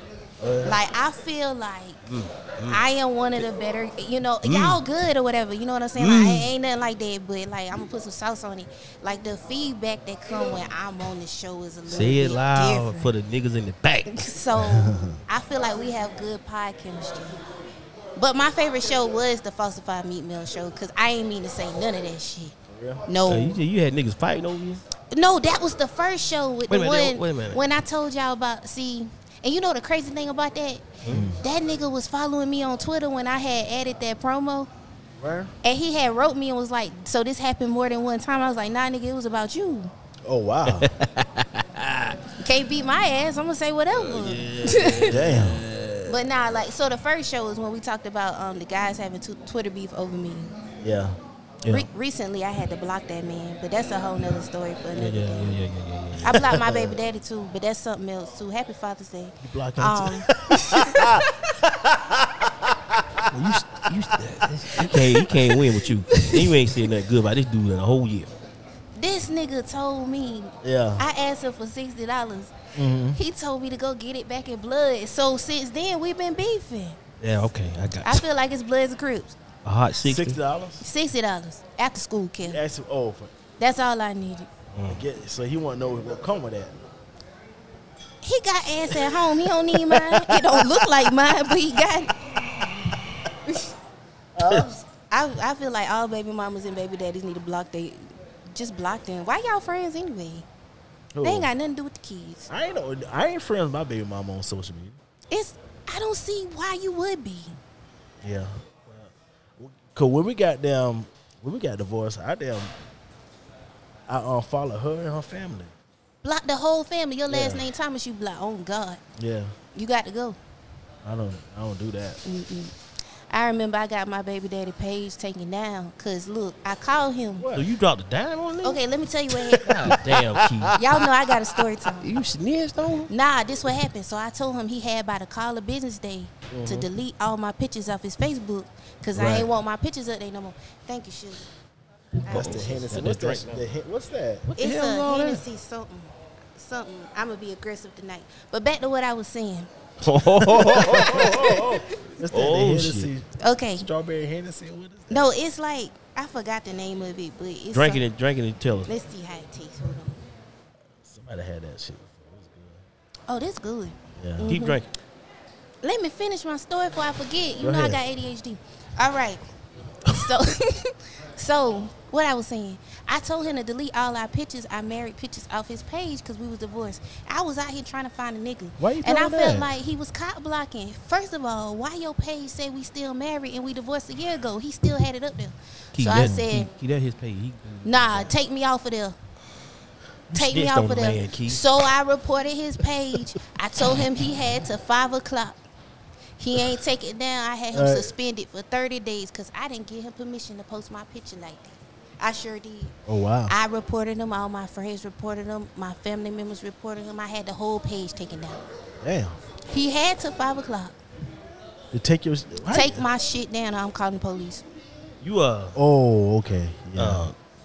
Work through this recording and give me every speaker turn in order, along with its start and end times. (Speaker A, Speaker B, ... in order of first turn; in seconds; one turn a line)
Speaker A: 0.4-0.8
Speaker B: 0.6-2.0
Speaker C: 2.0-2.8
Speaker B: 2.7-13.1
Speaker C: 4.4-4.8
Speaker C: 6.0-6.5
Speaker C: 11.8-14.1
Speaker B: 14.1-17.4
Speaker A: 14.6-15.2
Speaker B: 18.1-22.5
Speaker A: 22.7-23.0
Speaker B: 23.1-23.6
Speaker C: 23.2-24.8
Speaker B: 25.1-30.8
Speaker C: 26.7-27.6
Speaker C: 31.0-31.3
Speaker A: 31.1-31.4
Speaker B: 31.4-34.7
Speaker A: 35.2-35.5
Speaker B: 35.6-39.9
Speaker A: 40.2-40.9
Speaker C: 40.6-42.2
Speaker B: 42.4-45.2
Speaker C: 43.9-46.2
Speaker A: 45.0-45.6
Speaker B: 46.1-50.5
Speaker A: 50.8-51.2
Speaker B: 51.7-55.5
Speaker C: 54.9-56.5
Speaker B: 56.2-61.3
Speaker A: 56.3-57.0
Speaker A: 59.4-63.3
Speaker C: 63.3-68.3
Speaker A: 64.4-65.8
Speaker B: 69.0-72.5
Speaker A: 70.6-71.0
Speaker A: 72.7-73.2
Speaker B: 73.1-77.0
Speaker C: 77.2-78.2
Speaker B: 78.0-79.3
Speaker C: 79.6-80.4
Speaker A: 80.0-80.8
Speaker B: 80.8-82.6
Speaker A: 82.4-83.3
Speaker B: 83.6-84.5
Speaker C: 84.7-85.0
Speaker A: 84.9-86.8
Speaker B: 88.2-92.2
Speaker A: 94.3-94.7
Speaker B: 95.1-100.5
Speaker A: 101.1-101.5
Speaker B: 101.2-102.5
Speaker A: 102.5-105.0
Speaker B: 105.3-107.6
Speaker A: 108.2-108.6
Speaker A: 109.6-112.7
Speaker A: 114.1-115.7
Speaker B: 116.2-119.0
Speaker A: 117.3-117.7
Speaker A: 119.2-119.5
Speaker B: 119.7-120.4
Speaker A: 121.0-122.2
Speaker B: 122.2-122.7
Speaker B: 123.3-127.5
Speaker A: 127.4-127.7
Speaker C: 127.5-128.8
Speaker B: 128.6-129.7
Speaker A: 129.3-131.0
Speaker C: 129.6-130.8
Speaker B: 130.8-132.1
Speaker C: 132.0-133.1
Speaker B: 133.1-141.5
Speaker A: 136.5-136.9
Speaker C: 139.1-139.5
Speaker B: 142.2-142.8
Speaker C: 142.3-143.7
Speaker A: 142.3-144.5
Speaker C: 144.5-145.4
Speaker B: 144.6-149.7
Speaker C: 150.0-151.6
Speaker A: 150.4-155.3
Speaker B: 150.7-151.9
Speaker C: 152.3-153.1
Speaker B: 153.4-153.8
Speaker B: 155.1-158.0
Speaker C: 157.7-158.9
Speaker B: 158.9-160.2
Speaker A: 161.0-162.8
Speaker B: 163.3-164.8
Speaker A: 164.2-164.5
Speaker C: 164.4-164.9
Speaker B: 165.8-169.4
Speaker A: 167.6-168.0
Speaker B: 170.1-186.7
Speaker A: 178.8-179.7
Speaker C: 185.9-188.3
Speaker A: 186.1-186.4
Speaker B: 187.8-189.2
Speaker B: 190.3-195.6
Speaker C: 190.3-191.6
Speaker B: 196.4-202.9
Speaker A: 197.7-198.1
Speaker A: 203.1-203.5
Speaker B: 203.5-208.6
Speaker A: 209.0-209.4
Speaker B: 209.7-210.9
Speaker A: 211.9-213.0
Speaker B: 212.7-214.6
Speaker C: 215.2-215.8
Speaker A: 215.8-217.3
Speaker C: 216.9-217.3